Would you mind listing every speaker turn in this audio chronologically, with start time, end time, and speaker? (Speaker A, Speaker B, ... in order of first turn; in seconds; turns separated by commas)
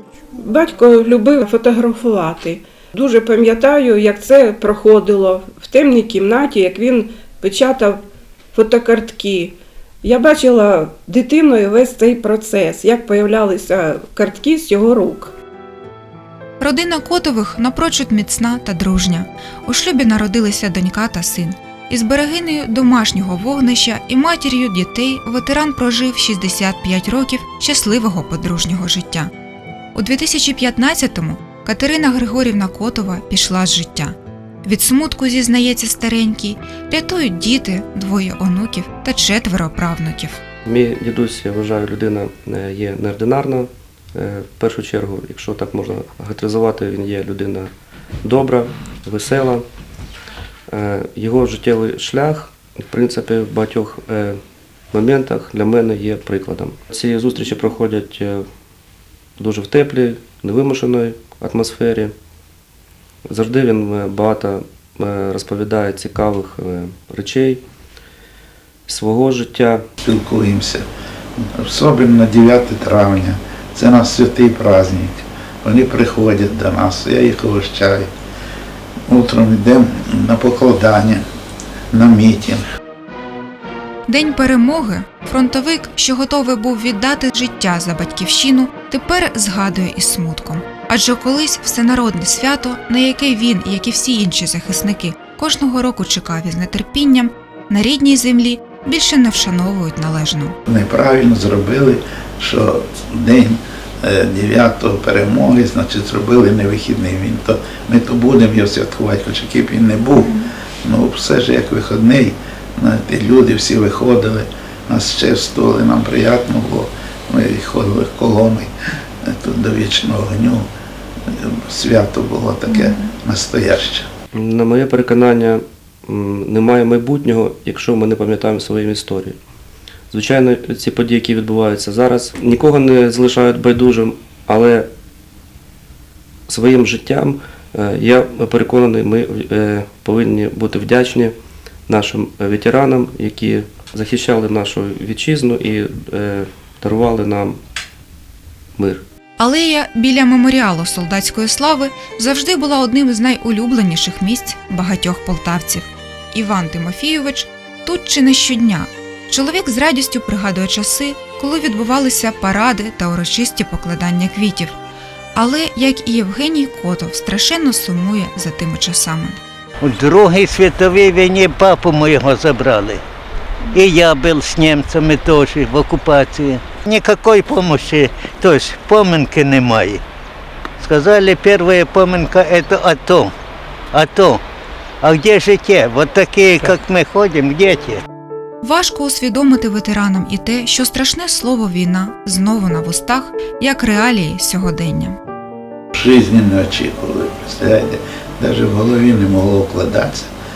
Speaker A: 0.4-8.0, Speaker A: 8.5-15.3, Speaker B: 16.6-29.3, Speaker B: 29.9-40.4, Speaker C: 40.6-47.7, Speaker C: 48.2-49.6, Speaker C: 50.7-54.4, Speaker C: 54.9-58.4, Speaker C: 59.4-62.1, Speaker C: 63.3-67.6, Speaker C: 68.9-69.8, Speaker D: 70.0-70.8, Speaker D: 71.4-78.1, Speaker D: 79.1-81.2, Speaker D: 81.9-82.6, Speaker B: 84.1-100.5, Speaker D: 100.7-118.7, Speaker D: 119.2-120.7, Speaker D: 121.3-124.1, Speaker C: 124.3-129.4, Speaker C: 130.1-134.9, Speaker C: 136.5-141.3, Speaker C: 141.9-147.6, Speaker C: 148.8-149.0, Speaker B: 149.4-164.7, Speaker B: 165.3-169.4, Speaker E: 169.8-173.0, Speaker E: 173.7-180.0, Speaker E: 180.8-183.3, Speaker E: 183.9-184.4, Speaker E: 185.0-188.0, Speaker B: 188.6-195.2, Speaker D: 195.9-200.3